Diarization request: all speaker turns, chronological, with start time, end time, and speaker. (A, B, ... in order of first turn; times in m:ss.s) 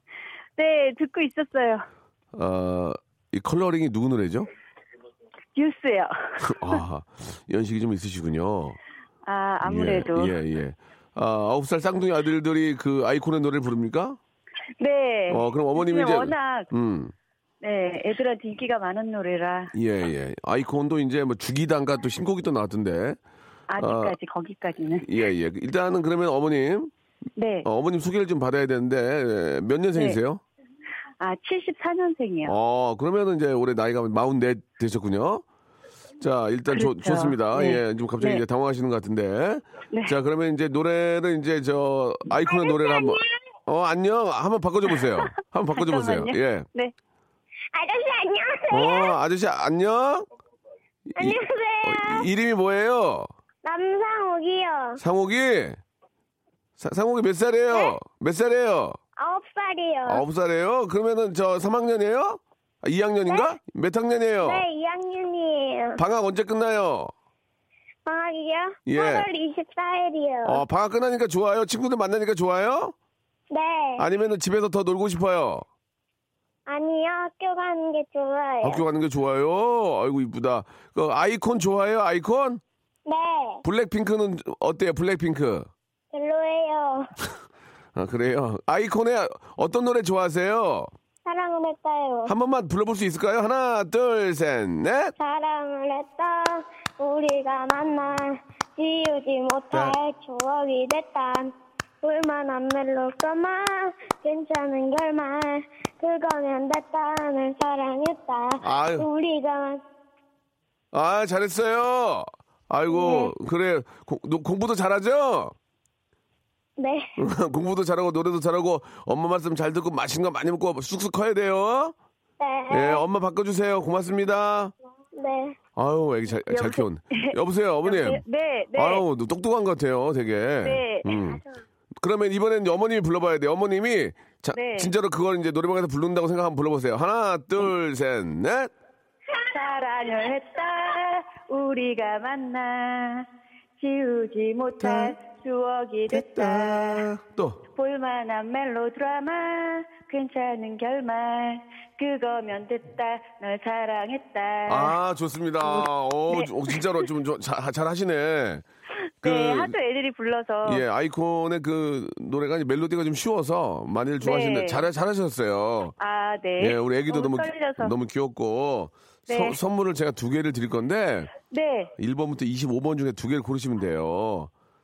0:00.6-0:01.8 A
0:02.4-0:04.5 B
0:05.6-0:06.2 A
0:06.4-0:08.8 B
0:09.2-0:10.4 A
0:09.6-0:14.2 B
0:14.8-0:16.7 A
0:15.3-0:17.1 B
0:17.6-0:19.7 A
0:19.7-0:23.2 B
0:23.7-0:25.1 A
0:23.8-0:24.2 B
0:25.0-0:26.9 B
0:27.4-0:27.7 A
0:27.6-0:30.4 B
0:31.2-0:32.6 A
0:32.4-0:35.4 B
0:36.2-0:46.7 B
0:36.7-0:38.4 A
0:42.5-0:43.0 A
0:45.8-0:46.9 A
0:47.7-0:49.1 C
0:48.7-0:50.3 B
0:51.2-0:53.3 B
0:51.2-0:52.2 C
0:53.6-0:55.0 C
0:55.0-0:55.8 B
0:56.8-0:59.0 B
0:59.2-1:00.2 C
1:00.1-1:04.6 B
1:04.4-1:06.0 C
1:06.0-1:07.1 B
1:08.1-1:10.6 C
1:08.9-1:09.3 B
1:10.5-1:12.9 B
1:13.5-1:14.0 C
1:14.0-1:15.6 B
1:16.7-1:18.8 C
1:18.6-1:22.6 B
1:23.1-1:23.6 C
1:23.6-1:25.7 B
1:26.1-1:27.1 C
1:28.0-1:30.9 B
1:31.3-1:32.3 C
1:32.3-1:35.1 B
1:35.2-1:41.5 C
1:39.7-1:40.0 B
1:42.0-1:49.8 C
1:48.6-1:49.0 B
1:50.9-1:55.5 B
1:52.9-1:53.3 C
1:56.8-1:57.1 C
1:57.2-2:02.0 B
2:02.4-2:03.0 C
2:02.7-2:04.7 B
2:05.2-2:05.6 C
2:05.8-2:08.2 B
2:06.5-2:09.0 A
2:08.8-2:11.4 B
2:10.6-2:11.2 A
2:12.0-2:18.7 B
2:14.5-2:14.9 A
2:19.3-2:23.3 A
2:23.8-2:27.0 A
2:24.8-2:25.2 B
2:26.1-2:27.6 B
2:27.8-2:35.0 A
2:34.7-2:38.6 B
2:35.6-2:37.0 A
2:39.2-2:40.8 A
2:39.2-2:39.7 B
2:40.6-2:45.9 B
2:44.2-2:44.8 A
2:46.0-2:47.9 A
2:46.6-2:51.3 B
2:49.3-2:49.6 A
2:51.5-2:51.9 A
2:52.0-2:54.5 B